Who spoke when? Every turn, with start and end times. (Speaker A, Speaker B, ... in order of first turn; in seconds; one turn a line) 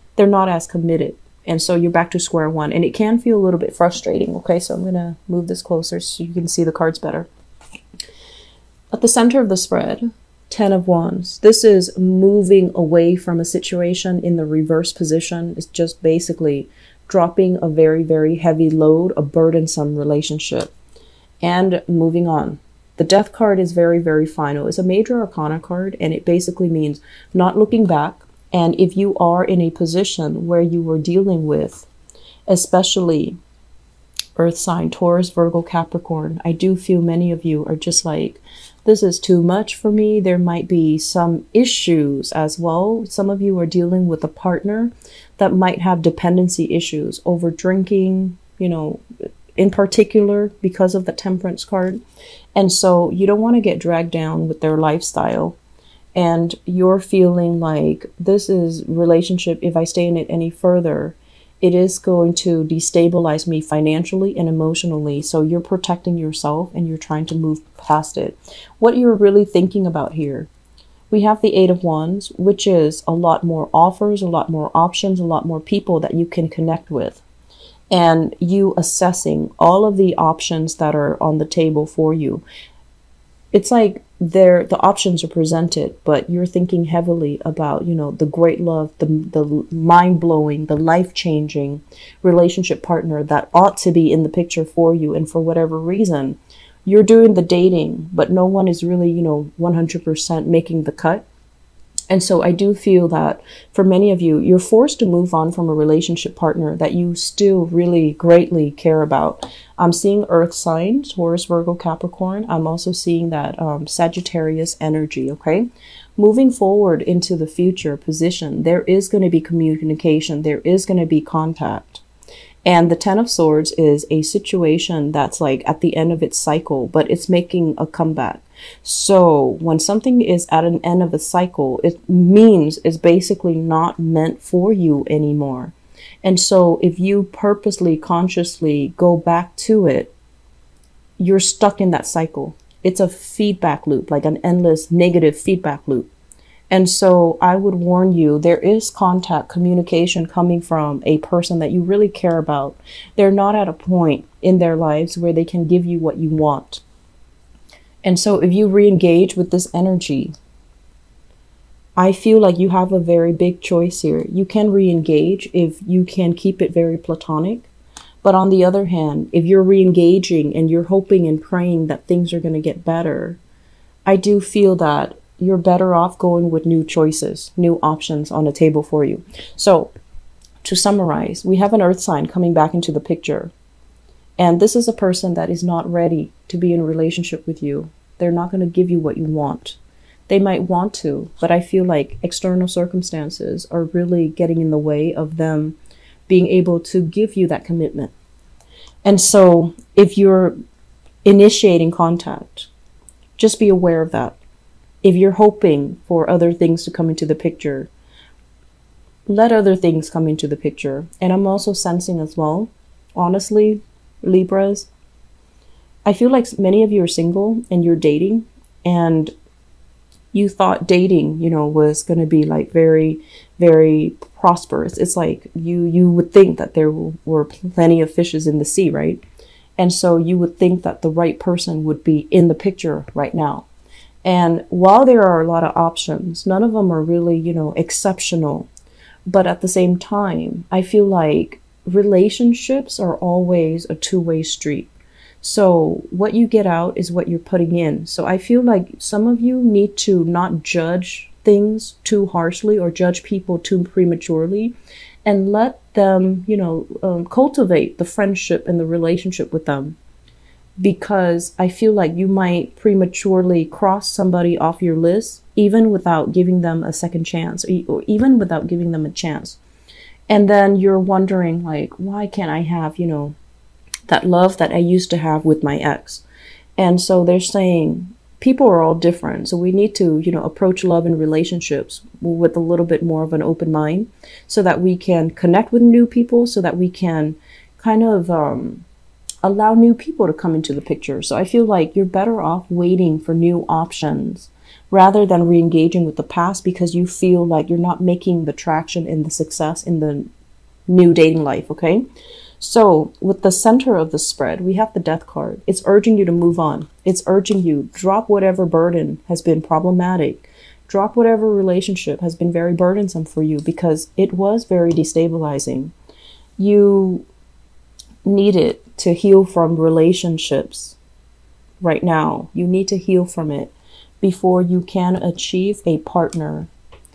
Speaker A: 0.1-7.3
Speaker A: 8.9-20.7
Speaker A: 21.4-31.9
Speaker A: 32.5-33.4
Speaker A: 34.4-49.0
Speaker A: 49.6-52.0
Speaker A: 52.5-55.6
Speaker A: 56.1-70.5
Speaker A: 71.1-77.2
Speaker A: 77.9-82.4
Speaker A: 83.5-101.2
Speaker A: 102.1-122.0
Speaker A: 122.7-140.1
Speaker A: 141.2-146.1
Speaker A: 146.7-156.8
Speaker A: 158.0-160.3
Speaker A: 161.9-167.7
Speaker A: 168.2-173.4
Speaker A: 174.1-179.9
Speaker A: 180.6-183.5
Speaker A: 184.4-189.8
Speaker A: 190.3-195.8
Speaker A: 196.3-198.1
Speaker A: 199.0-200.6
Speaker A: 201.2-202.7
Speaker A: 203.4-204.4
Speaker A: 205.0-207.9
Speaker A: 209.2-214.9
Speaker A: 216.0-219.3
Speaker A: 220.3-229.2
Speaker A: 229.8-233.7
Speaker A: 234.2-238.7
Speaker A: 239.3-244.9
Speaker A: 245.4-254.7
Speaker A: 255.2-260.0
Speaker A: 260.8-269.6
Speaker A: 270.3-273.4
Speaker A: 274.1-276.2
Speaker A: 276.8-288.8
Speaker A: 289.4-300.3
Speaker A: 300.9-302.0
Speaker A: 302.6-315.9
Speaker A: 316.6-317.3
Speaker A: 318.2-320.9
Speaker A: 321.8-326.7